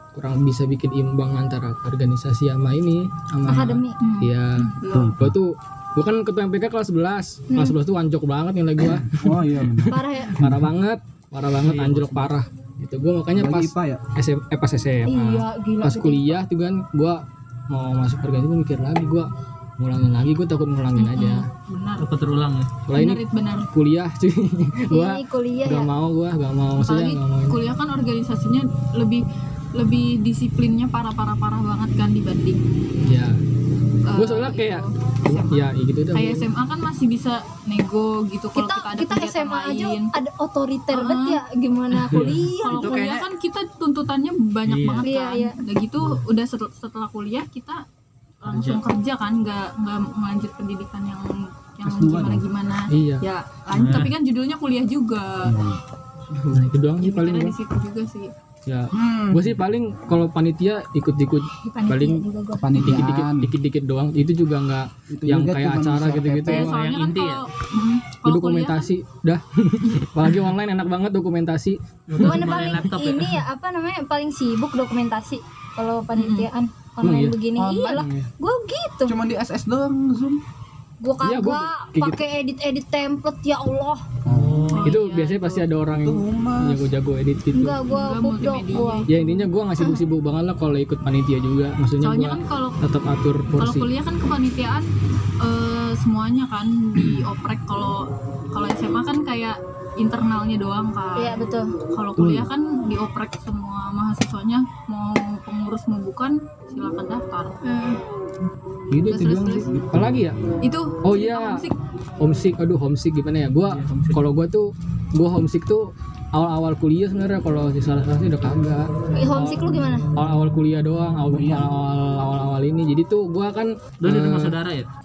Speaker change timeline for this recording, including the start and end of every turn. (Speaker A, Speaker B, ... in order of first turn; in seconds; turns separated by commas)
Speaker A: 0.1-21.5, Speaker B: 3.5-4.0, Speaker C: 4.0-5.2, Speaker D: 4.9-5.3, Speaker B: 7.5-7.8, Speaker D: 8.9-10.6, Speaker B: 9.9-10.4, Speaker E: 11.6-12.3, Speaker D: 13.3-14.0, Speaker B: 15.1-16.4, Speaker B: 21.0-21.4, Speaker C: 21.6-22.1, Speaker E: 22.0-22.8, Speaker A: 22.9-27.6, Speaker C: 22.9-23.7, Speaker B: 24.9-25.9, Speaker C: 26.8-29.2, Speaker C: 29.8-32.6, Speaker A: 33.0-33.4, Speaker C: 34.1-34.9, Speaker A: 34.1-36.5, Speaker C: 36.1-40.1, Speaker B: 38.5-43.1, Speaker C: 40.9-41.4, Speaker E: 42.1-42.4, Speaker C: 42.6-47.8, Speaker D: 42.7-43.3, Speaker E: 44.6-45.1, Speaker B: 45.0-45.6, Speaker C: 48.4-55.5, Speaker E: 48.5-48.8, Speaker D: 51.8-52.5, Speaker A: 52.9-53.3, Speaker E: 53.7-54.1, Speaker D: 55.4-55.8, Speaker A: 56.3-57.6, Speaker C: 57.0-58.3, Speaker A: 58.7-62.2, Speaker D: 58.9-59.6, Speaker B: 61.6-62.7, Speaker D: 62.6-63.5, Speaker A: 62.8-66.7, Speaker D: 65.1-66.7, Speaker C: 66.5-68.9, Speaker E: 66.5-67.5, Speaker A: 68.2-72.5, Speaker E: 72.1-73.4, Speaker B: 72.2-79.2, Speaker C: 76.2-76.5, Speaker A: 77.0-78.3, Speaker D: 77.6-78.0, Speaker D: 79.1-80.4, Speaker B: 81.0-84.1, Speaker A: 81.2-82.2, Speaker D: 84.2-84.9, Speaker E: 84.3-85.0, Speaker C: 84.7-85.7, Speaker A: 84.8-87.8, Speaker D: 86.0-86.9, Speaker B: 87.5-89.1, Speaker C: 87.9-89.3, Speaker A: 89.1-93.9, Speaker C: 92.0-92.8, Speaker C: 93.6-94.9, Speaker C: 95.4-107.6, Speaker B: 101.2-101.8, Speaker D: 102.2-102.5, Speaker B: 107.6-108.0, Speaker A: 108.9-110.4, Speaker C: 109.1-109.7, Speaker D: 109.1-110.2, Speaker C: 110.6-111.8, Speaker A: 111.0-111.7, Speaker A: 112.2-124.5, Speaker E: 113.7-114.2, Speaker B: 119.2-120.1, Speaker D: 121.3-121.7, Speaker E: 124.0-124.9